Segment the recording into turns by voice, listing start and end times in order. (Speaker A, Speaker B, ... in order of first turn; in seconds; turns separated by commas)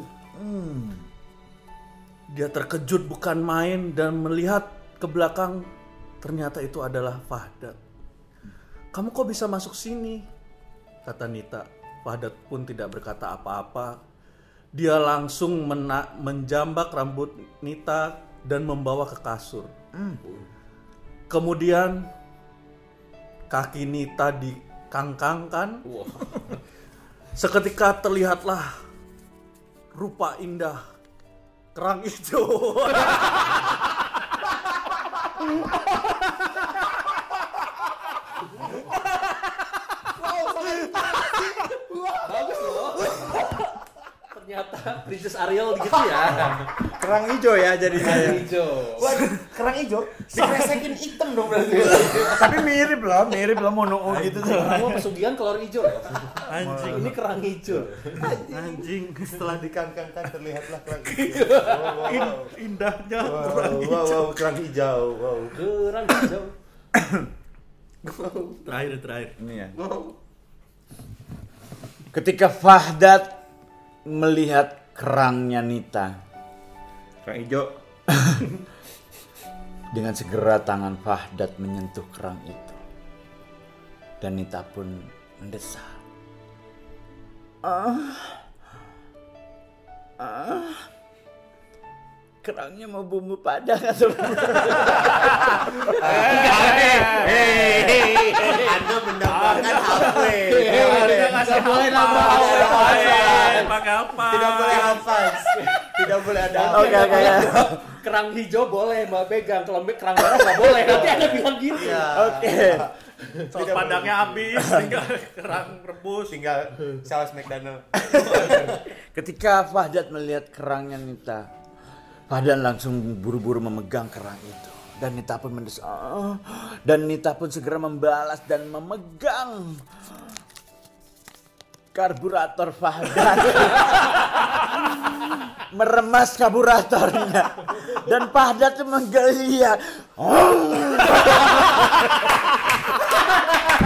Speaker A: 0.3-1.1, Speaker B: 2.3-5.6, Speaker B: 6.2-7.8, Speaker B: 8.9-10.2, Speaker B: 11.1-13.9, Speaker B: 14.8-19.7, Speaker A: 19.9-20.2, Speaker B: 21.3-22.0, Speaker B: 23.5-25.8, Speaker C: 25.9-26.5, Speaker B: 27.4-28.7, Speaker B: 29.9-30.8, Speaker B: 31.8-33.7, Speaker D: 40.3-41.3, Speaker C: 42.1-43.6, Speaker C: 44.3-46.7, Speaker E: 46.6-48.4, Speaker C: 48.0-49.1, Speaker D: 48.0-48.4, Speaker D: 49.0-52.6, Speaker C: 51.7-52.3, Speaker A: 52.1-55.0, Speaker C: 54.1-58.5, Speaker B: 54.5-54.9, Speaker B: 56.4-57.1, Speaker A: 56.6-57.1, Speaker D: 58.2-62.5, Speaker B: 58.4-59.6, Speaker C: 61.2-62.1, Speaker B: 61.8-64.5, Speaker D: 63.2-65.6, Speaker C: 65.5-66.5, Speaker B: 68.6-69.4, Speaker A: 69.4-69.8, Speaker D: 69.8-70.2, Speaker A: 72.1-73.4, Speaker A: 74.1-76.1, Speaker E: 77.2-77.7, Speaker A: 79.9-82.8, Speaker A: 84.2-86.0, Speaker A: 87.6-88.5, Speaker A: 90.2-90.9, Speaker A: 92.4-96.2, Speaker D: 96.0-107.5, Speaker B: 96.1-97.5, Speaker C: 96.3-103.8, Speaker B: 100.5-105.0, Speaker C: 105.4-105.8, Speaker C: 106.5-112.3, Speaker A: 106.7-107.7, Speaker D: 110.7-112.9, Speaker A: 112.1-112.9, Speaker B: 113.5-116.4, Speaker D: 113.5-114.5, Speaker A: 114.6-114.9, Speaker D: 116.3-118.8, Speaker A: 118.1-121.5, Speaker A: 122.3-130.3, Speaker A: 131.9-141.8